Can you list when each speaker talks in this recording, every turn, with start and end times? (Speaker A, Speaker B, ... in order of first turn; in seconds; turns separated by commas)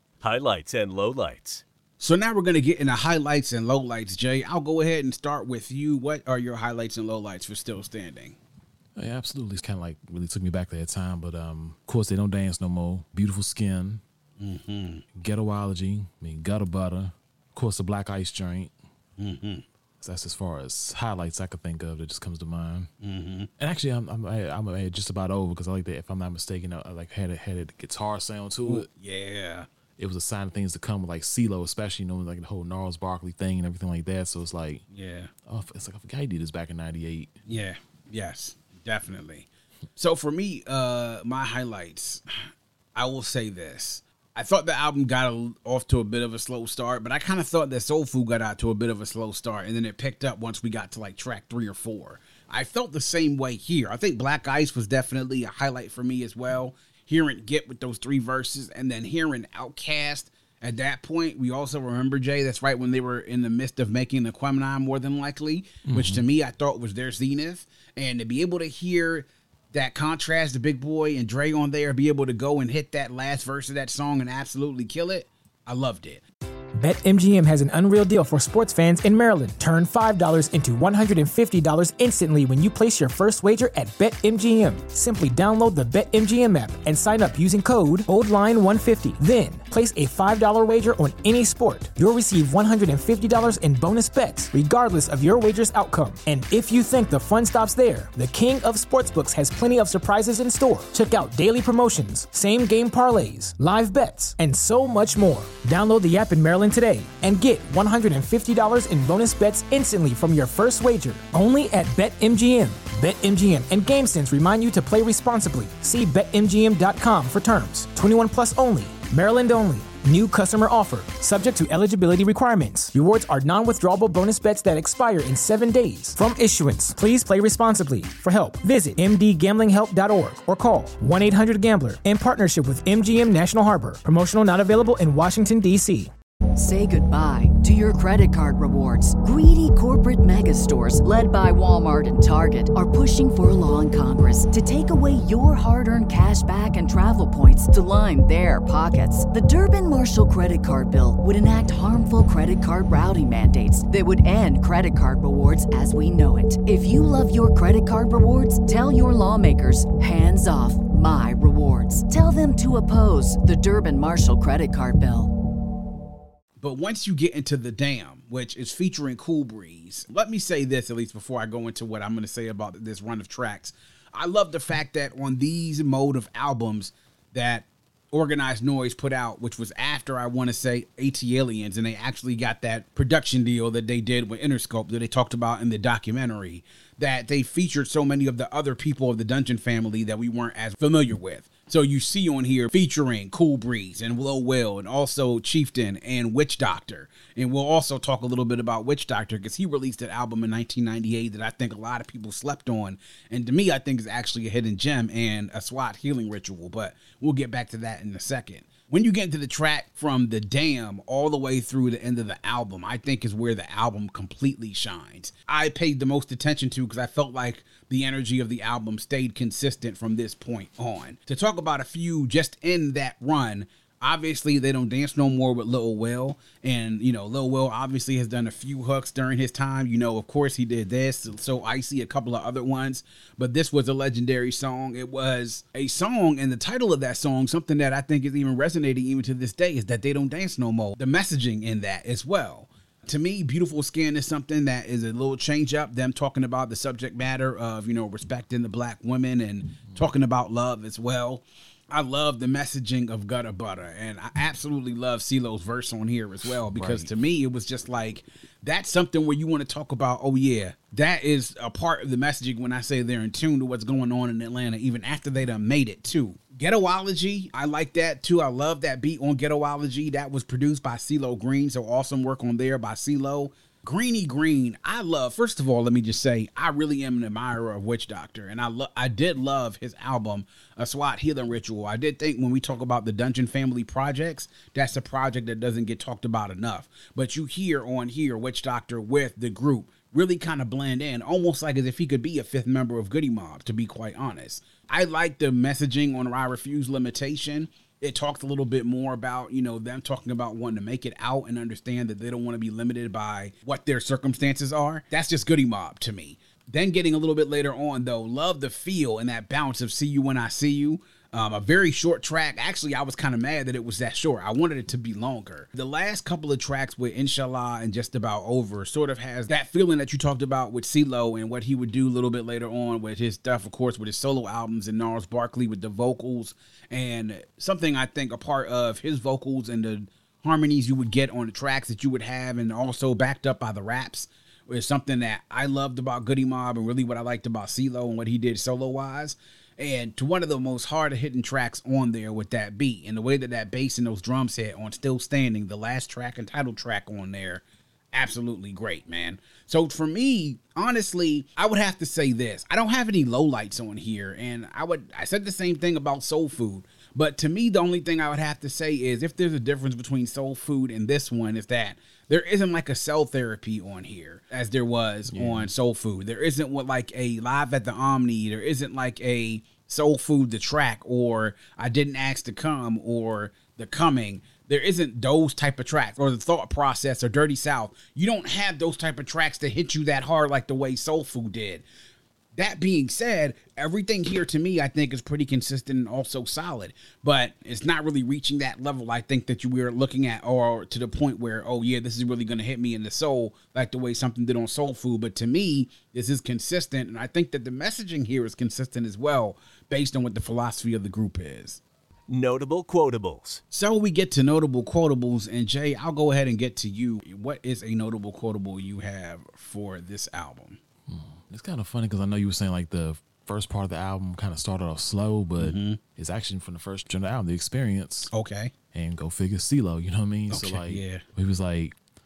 Speaker A: 0.2-1.6, Speaker B: 2.0-8.4, Speaker C: 9.0-14.0, Speaker B: 14.4-15.1, Speaker C: 15.2-18.7, Speaker B: 19.2-19.6, Speaker C: 20.0-22.9, Speaker B: 23.0-23.5, Speaker C: 23.6-28.9, Speaker B: 28.7-29.7, Speaker C: 30.0-34.9, Speaker B: 34.9-35.3, Speaker C: 35.5-37.3, Speaker B: 37.5-42.2, Speaker B: 43.0-76.2, Speaker C: 65.9-66.3, Speaker D: 76.7-136.1, Speaker E: 136.6-165.3, Speaker B: 166.6-381.9, Speaker C: 256.7-257.1, Speaker C: 365.3-365.7, Speaker B: 382.6-401.8, Speaker A: 402.3-403.6, Speaker B: 403.7-410.8, Speaker C: 411.1-418.3, Speaker B: 415.6-416.0, Speaker B: 418.3-418.7, Speaker C: 418.9-421.9, Speaker B: 420.5-421.2